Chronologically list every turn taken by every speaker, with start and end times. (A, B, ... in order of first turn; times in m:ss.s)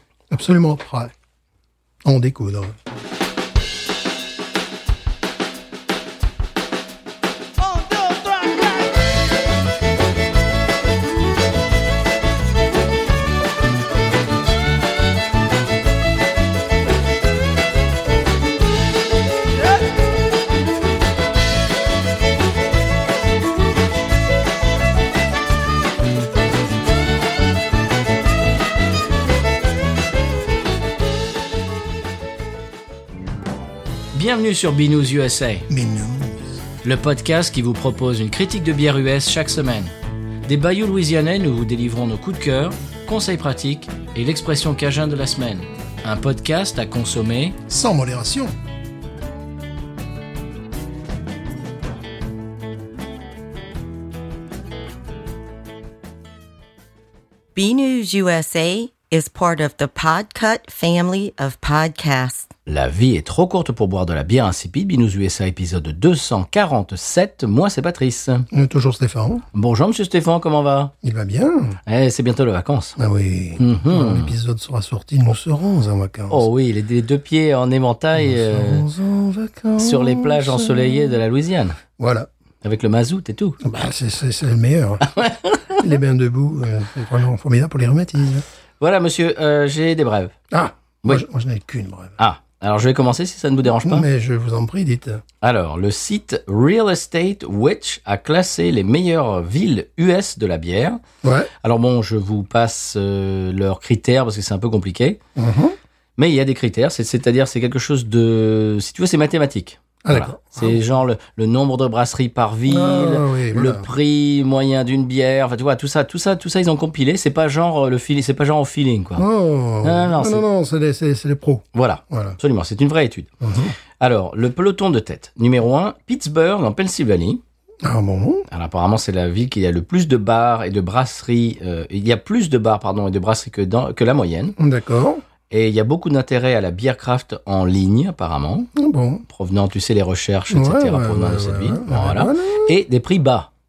0:00.3-0:01.1 A
0:02.0-0:02.7 A
0:34.1-0:35.7 B
0:35.7-0:36.5 A
0:36.8-0:39.9 B
0:40.4-0:47.6 B
0:47.7-0:48.5 A
0:57.5-1:02.5 C
1:02.6-1:08.5 B
1:08.5-1:09.4 A
1:09.5-1:10.9 B
1:11.0-1:11.8 A
1:11.8-1:13.0 B
1:13.0-1:16.4 A
1:13.6-1:14.3 B
1:16.3-1:18.8 B
1:18.2-1:21.2 A
1:19.8-1:21.8 B
1:22.0-1:22.3 A
1:22.6-1:23.6 B
1:23.6-1:25.1 A
1:25.0-1:25.8 B
1:25.7-1:28.4 A
1:28.8-1:30.3 B
1:30.5-1:32.2 A
1:32.2-1:34.0 B
1:33.8-1:35.2 A
1:35.4-1:41.0 B
1:41.2-1:41.5 A
1:41.6-1:45.2 B
1:45.4-1:45.7 A
1:46.2-1:59.2 B
1:50.0-1:50.8 A
1:52.7-1:53.9 A
1:59.2-2:02.4 A
1:59.8-2:00.4 B
2:01.7-2:03.3 B
2:03.4-2:03.8 A
2:04.0-2:07.4 B
2:07.8-2:08.5 A
2:08.5-2:14.6 B
2:14.6-2:15.2 A
2:15.5-2:18.7 B
2:18.7-2:19.2 A
2:19.3-2:23.5 B
2:20.5-2:22.7 A